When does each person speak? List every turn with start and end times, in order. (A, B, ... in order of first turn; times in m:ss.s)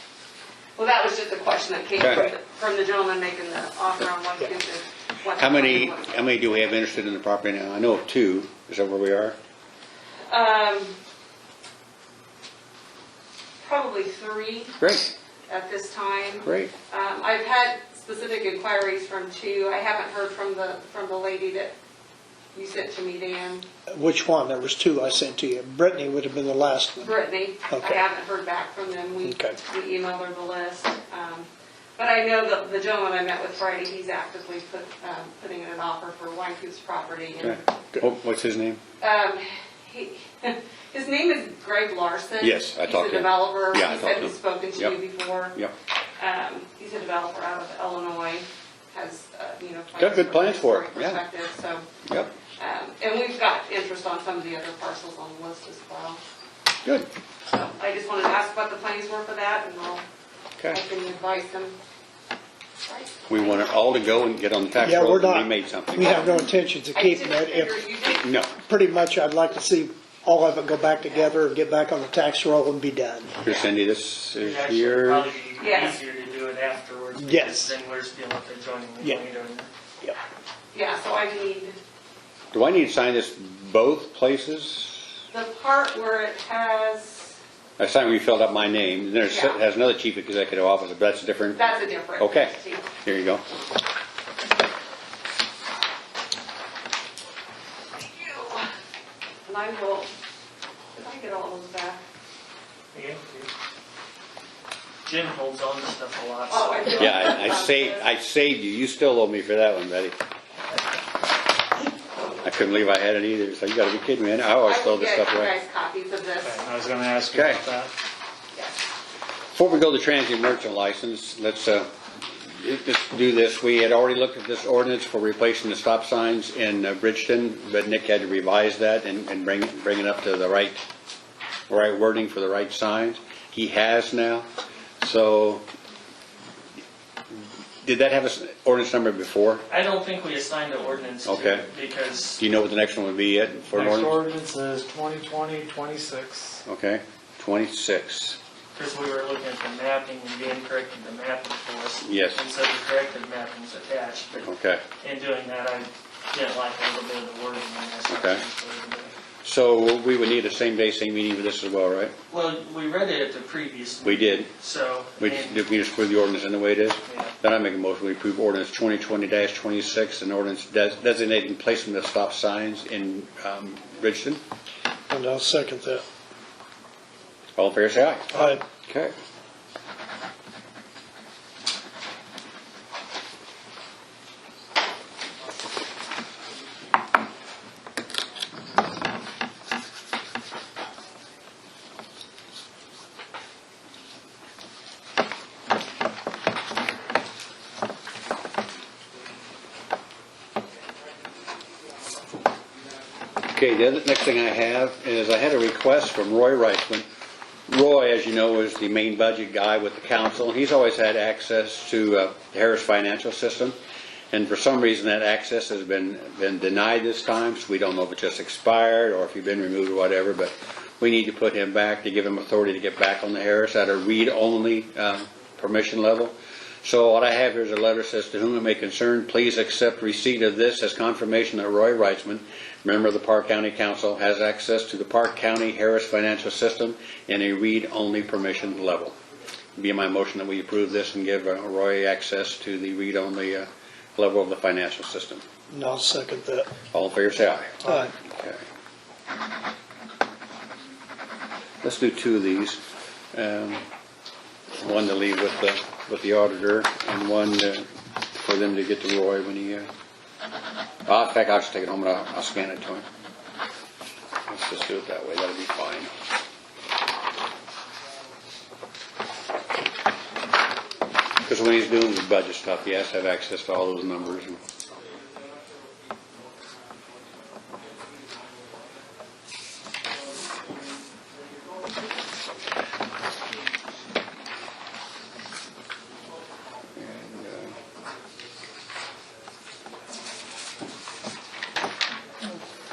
0:00.8-0:06.1 A
0:02.0-0:02.3 B
0:05.4-0:09.4 B
0:10.3-0:11.0 A
0:13.6-0:14.8 A
0:14.8-0:15.1 B
0:15.5-0:21.8 A
0:16.4-0:16.7 B
0:22.5-0:23.7 A
0:23.9-0:27.1 C
0:27.0-0:37.6 A
0:27.7-0:28.0 C
0:29.2-0:29.6 C
0:37.4-0:38.8 B
0:39.0-0:45.6 A
0:42.4-0:45.0 B
0:46.2-0:51.9 A
0:50.0-0:51.2 B
0:52.1-0:52.3 B
0:52.6-0:56.2 A
0:57.5-1:00.0 A
1:00.7-1:01.8 A
1:02.8-1:03.2 A
1:03.3-1:06.5 B
1:04.8-1:07.8 C
1:06.9-1:08.3 A
1:08.2-1:08.5 B
1:08.5-1:13.4 C
1:13.4-1:15.3 B
1:14.4-1:19.7 D
1:15.6-1:16.0 A
1:17.2-1:17.7 C
1:20.7-1:21.8 A
1:22.5-1:25.0 B
1:25.3-1:27.4 A
1:27.8-1:33.4 B
1:29.3-1:29.6 A
1:31.6-1:32.9 A
1:38.0-1:38.7 A
1:39.5-1:40.1 A
1:40.9-1:42.0 A
1:42.9-1:43.5 D
1:45.0-1:47.3 D
1:46.5-1:48.0 A
1:46.9-1:50.2 B
1:52.4-1:55.5 B
1:54.6-1:56.6 A
1:56.4-1:57.9 E
1:57.3-1:57.6 B
1:58.5-1:58.8 A
1:59.5-2:10.8 B
2:11.7-2:14.5 B
2:15.0-2:15.6 B
2:17.4-2:19.6 B
2:19.7-2:22.4 D
2:21.2-2:21.7 B
2:22.4-2:24.2 B
2:23.7-2:26.6 E
2:26.7-2:28.4 B
2:28.8-2:39.1 D
2:32.0-2:32.4 B
2:34.4-2:34.8 B
2:38.1-2:38.4 B
2:39.4-2:42.2 B
2:42.3-2:45.6 D
2:44.0-2:44.5 B
2:45.2-2:54.4 B
2:47.1-2:47.3 D
2:55.1-2:56.0 C
2:57.6-2:59.1 B
2:58.3-2:58.6 C
3:23.5-3:27.1 B
3:27.7-3:33.8 B
3:34.3-3:59.2 B
3:59.8-4:05.4 B
4:05.7-4:06.7 C
4:06.9-4:08.6 B
4:07.8-4:08.1 C
4:11.8-4:12.8 B
4:13.3-4:13.8 B
4:14.8-4:19.9 B
4:21.1-4:23.1 B
4:24.5-4:26.1 B
4:31.4-4:34.6 B
4:47.0-4:47.8 B